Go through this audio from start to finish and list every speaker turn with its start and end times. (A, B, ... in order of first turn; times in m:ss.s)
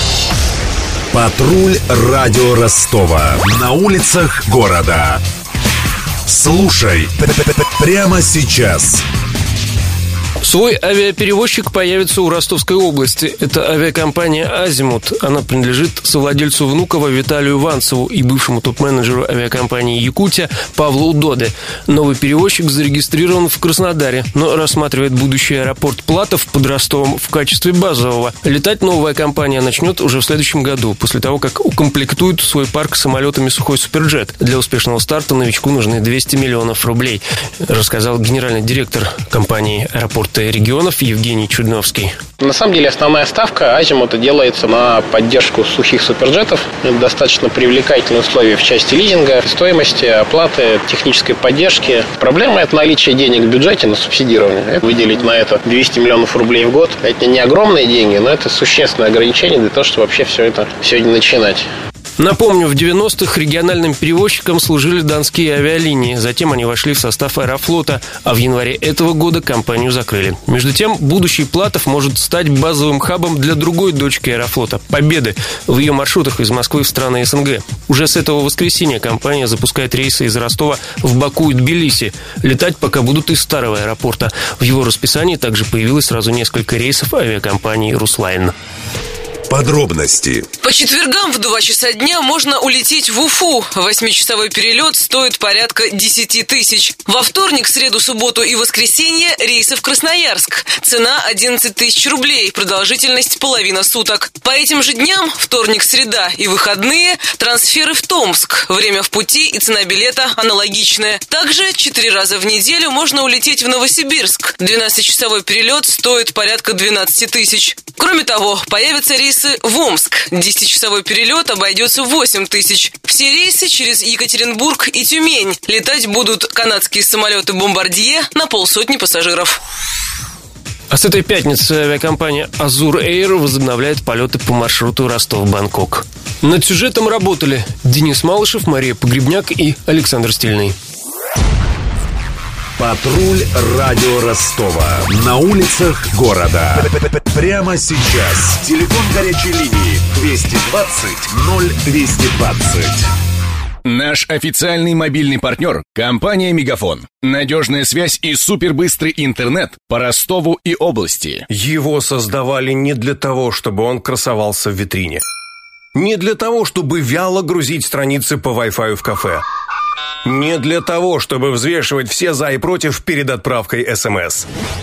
0:01.1-0:05.2 A
0:06.2-0:09.0 A
0:10.4-0:42.1 B
0:42.4-1:01.6 C
1:02.2-1:28.5 B
1:29.5-1:30.4 A
1:30.6-2:09.6 D
2:10.9-2:20.8 B
2:22.8-2:33.1 A
2:33.8-2:41.5 E
2:41.5-2:45.2 F
2:45.9-2:49.4 F
2:50.2-2:54.5 F